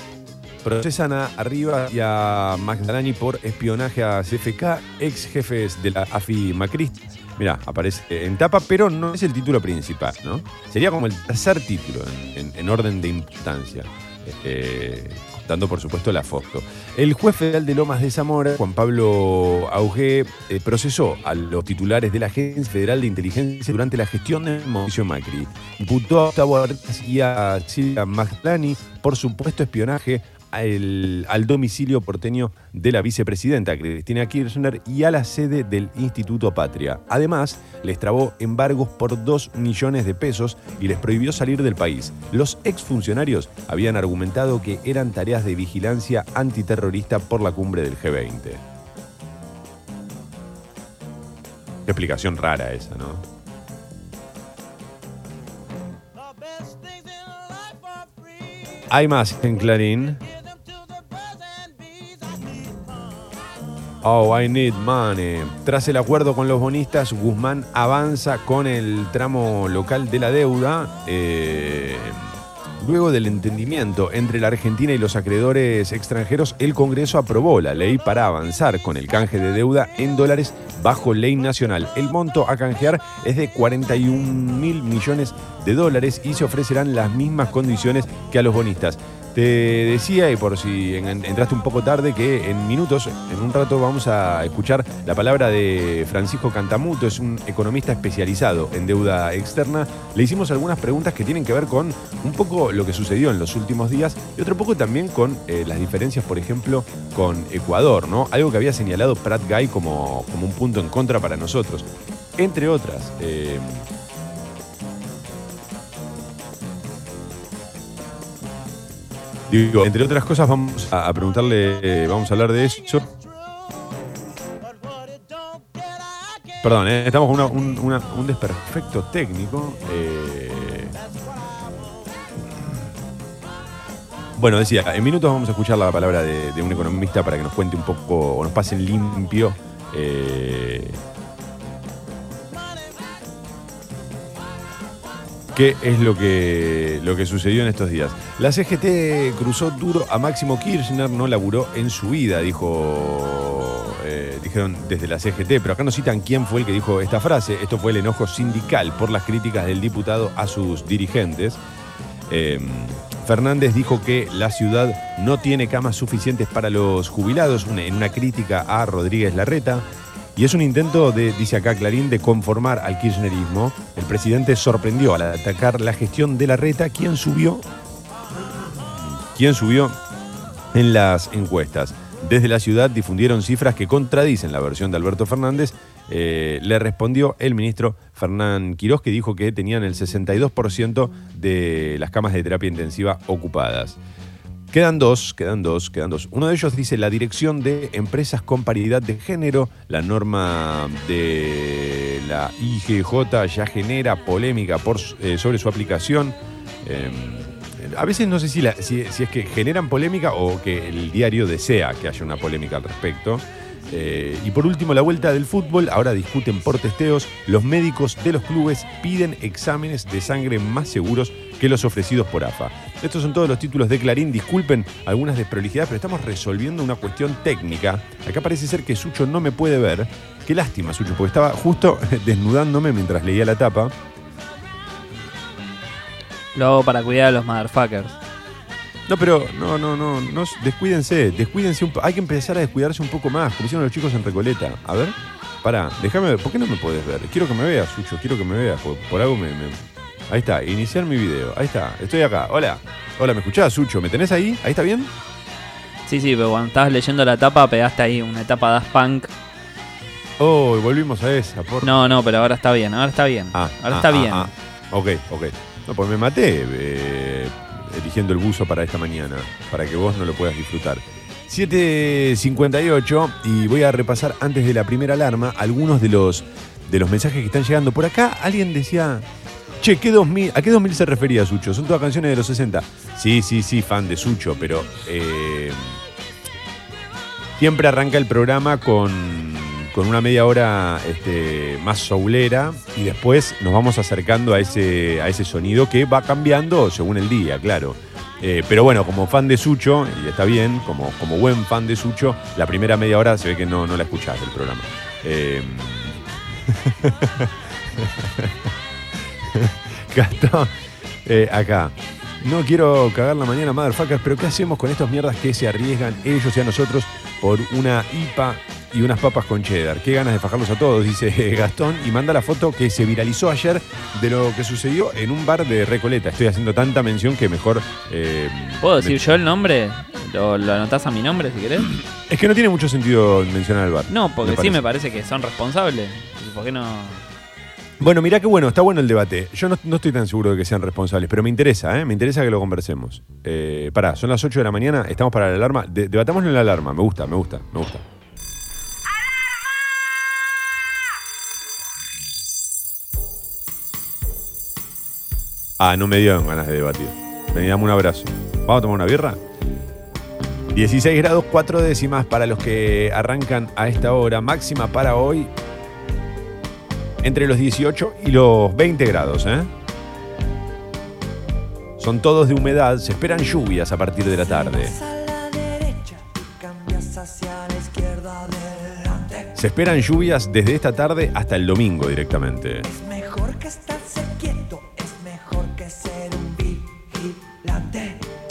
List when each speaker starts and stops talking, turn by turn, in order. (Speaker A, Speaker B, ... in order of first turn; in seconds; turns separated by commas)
Speaker A: 0.6-48.6, Speaker A: 51.9-53.2, Speaker A: 58.9-60.2, Speaker A: 64.0-113.9, Speaker A: 119.5-123.1, Speaker A: 126.6-130.9, Speaker A: 132.5-132.8, Speaker A: 134.4-141.0, Speaker A: 145.5-161.6, Speaker A: 162.3-177.7, Speaker A: 178.7-180.0, Speaker A: 180.7-194.0, Speaker A: 194.7-233.9, Speaker B: 236.6-238.2, Speaker A: 239.1-249.8, Speaker A: 250.3-255.1, Speaker B: 256.1-259.3, Speaker A: 260.4-261.9, Speaker B: 261.8-264.5, Speaker A: 263.5-279.3, Speaker A: 279.8-286.0, Speaker A: 287.6-308.7, Speaker A: 309.5-310.7, Speaker A: 311.2-329.4, Speaker B: 328.8-331.9, Speaker A: 331.9-334.8, Speaker B: 334.1-337.2, Speaker A: 338.0-348.1, Speaker A: 355.8-359.4, Speaker A: 360.7-365.5, Speaker A: 367.2-369.7, Speaker A: 372.0-375.0, Speaker C: 374.4-379.6, Speaker A: 379.6-382.9, Speaker C: 382.8-388.3